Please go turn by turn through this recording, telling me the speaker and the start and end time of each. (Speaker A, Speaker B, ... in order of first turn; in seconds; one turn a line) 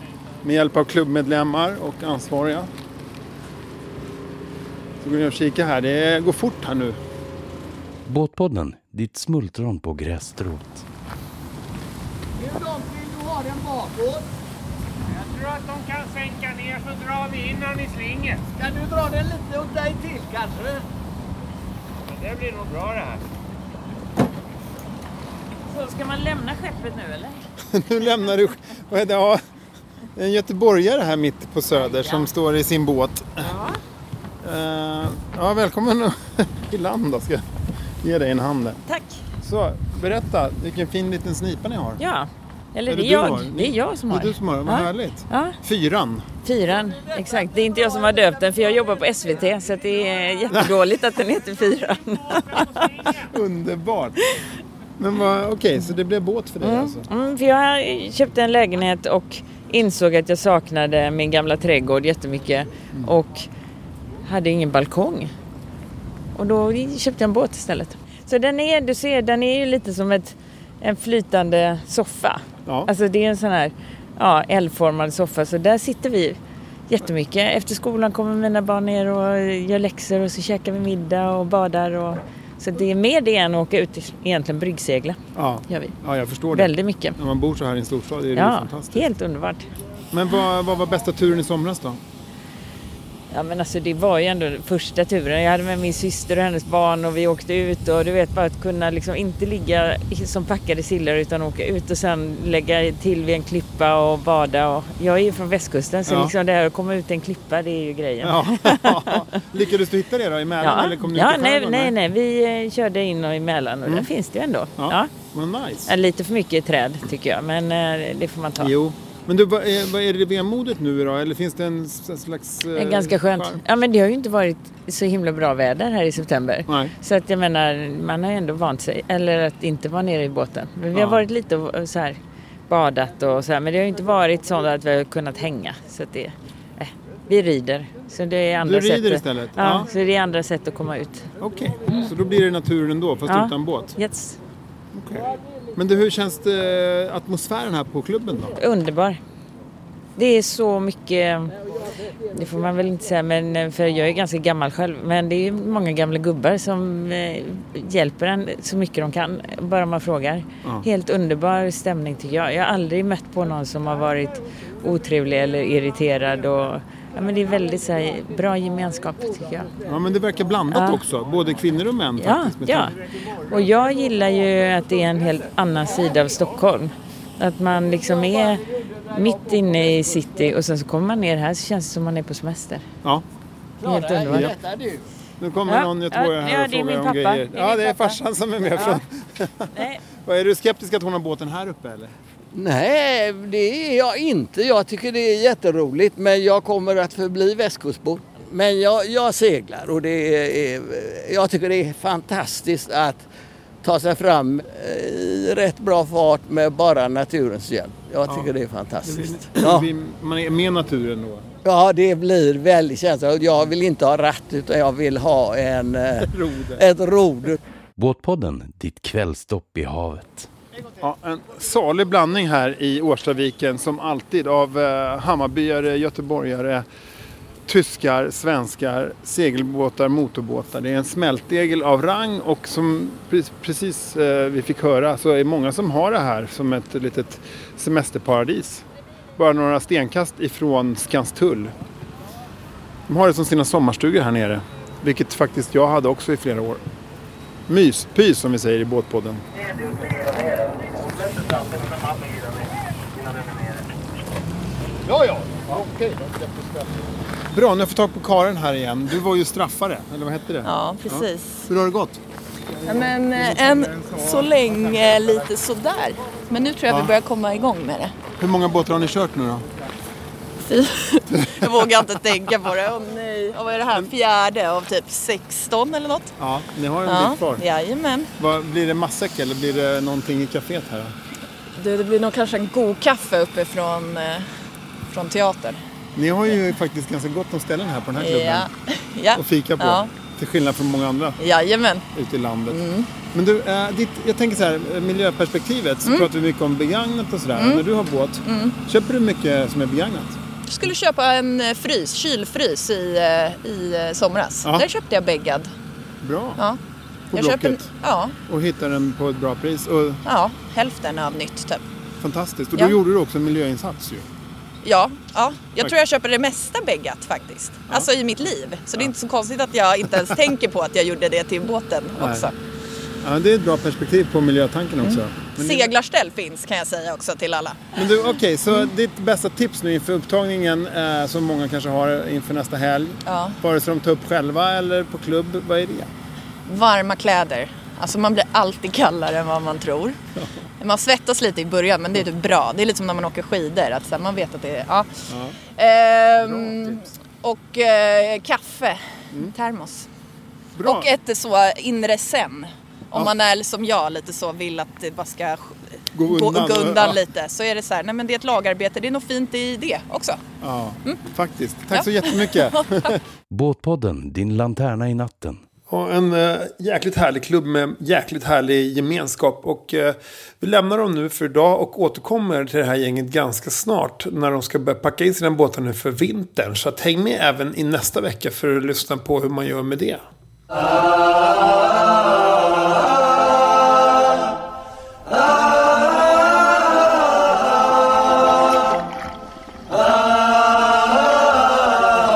Speaker A: 0.4-2.7
Speaker A: 5.0-7.0
Speaker B: 8.1-10.8
Speaker C: 13.6-14.1
Speaker C: 15.1-18.4
Speaker C: 22.1-23.2
Speaker D: 25.7-27.4
Speaker A: 27.7-29.4
Speaker A: 30.1-33.5
Speaker D: 31.8-32.2
Speaker D: 33.4-33.8
Speaker A: 34.4-37.5
Speaker A: 38.0-38.8
Speaker D: 38.9-39.2
Speaker A: 39.4-42.0
Speaker D: 42.0-45.6
Speaker A: 42.9-46.3
Speaker D: 46.4-52.9
Speaker C: 52.5-52.8
Speaker A: 53.3-54.2
Speaker A: 55.0-57.0
Speaker D: 56.6-63.5
Speaker D: 64.2-65.3
Speaker D: 66.3-76.4
Speaker D: 76.9-86.0
Speaker A: 85.3-89.1
Speaker D: 86.5-87.2
Speaker D: 88.3-89.7
Speaker A: 90.1-92.0
Speaker D: 93.3-109.2
Speaker A: 106.1-106.3
Speaker A: 108.2-111.9
Speaker D: 110.6-115.1
Speaker A: 114.8-115.9
Speaker D: 115.8-118.7
Speaker A: 118.6-123.6
Speaker D: 122.7-132.2
Speaker A: 126.7-126.9
Speaker A: 130.9-131.2
Speaker D: 132.7-141.3
Speaker A: 138.6-139.9
Speaker A: 141.4-143.9
Speaker D: 143.3-144.4
Speaker A: 144.9-148.6
Speaker D: 148.6-149.2
Speaker D: 150.2-151.6
Speaker D: 152.3-169.7
Speaker A: 169.9-173.0
Speaker D: 170.7-171.0
Speaker D: 172.2-172.9
Speaker D: 173.5-182.8
Speaker E: 183.8-185.1
Speaker D: 183.8-184.5
Speaker A: 184.3-184.6
Speaker A: 185.4-189.7
Speaker D: 185.7-188.2
Speaker D: 188.7-189.0
Speaker D: 189.7-190.0
Speaker A: 190.2-192.1
Speaker E: 192.5-203.3
Speaker E: 203.8-209.9
Speaker A: 208.2-208.5
Speaker A: 209.0-211.5
Speaker E: 211.6-217.6
Speaker A: 216.2-216.8
Speaker B: 217.9-220.5
Speaker A: 221.0-226.8
Speaker A: 227.7-238.8
Speaker A: 239.4-241.7
Speaker A: 243.1-246.8
Speaker A: 247.7-249.4
Speaker F: 255.0-257.1
Speaker A: 257.5-262.2
Speaker G: 260.6-261.7
Speaker G: 262.8-268.1
Speaker A: 263.0-264.3
Speaker A: 268.4-269.7
Speaker G: 270.6-276.3
Speaker A: 271.4-271.6
Speaker A: 276.4-277.6
Speaker G: 277.0-278.3
Speaker A: 278.4-281.1
Speaker G: 281.7-284.5
Speaker G: 285.1-285.8
Speaker A: 286.1-288.7
Speaker G: 288.2-290.1
Speaker A: 289.3-291.4
Speaker G: 291.4-292.0
Speaker A: 292.1-292.8
Speaker G: 292.7-293.1
Speaker A: 293.3-300.4
Speaker G: 296.0-296.3
Speaker G: 297.5-297.8
Speaker G: 298.4-298.8
Speaker G: 300.7-305.7
Speaker A: 306.2-306.6
Speaker A: 307.3-307.9
Speaker G: 307.3-308.3
Speaker A: 308.5-310.2
Speaker G: 310.2-311.8
Speaker A: 312.2-314.3
Speaker G: 314.8-322.5
Speaker A: 322.2-322.5
Speaker A: 323.2-325.9
Speaker G: 325.0-327.8
Speaker A: 327.9-336.1
Speaker G: 333.2-333.6
Speaker G: 336.7-340.2
Speaker G: 340.8-345.1
Speaker A: 345.3-345.6
Speaker G: 345.8-350.1
Speaker A: 350.8-351.1
Speaker G: 350.8-360.4
Speaker A: 356.1-357.2
Speaker A: 360.6-363.2
Speaker G: 361.9-363.1
Speaker B: 363.5-365.6
Speaker A: 365.9-380.2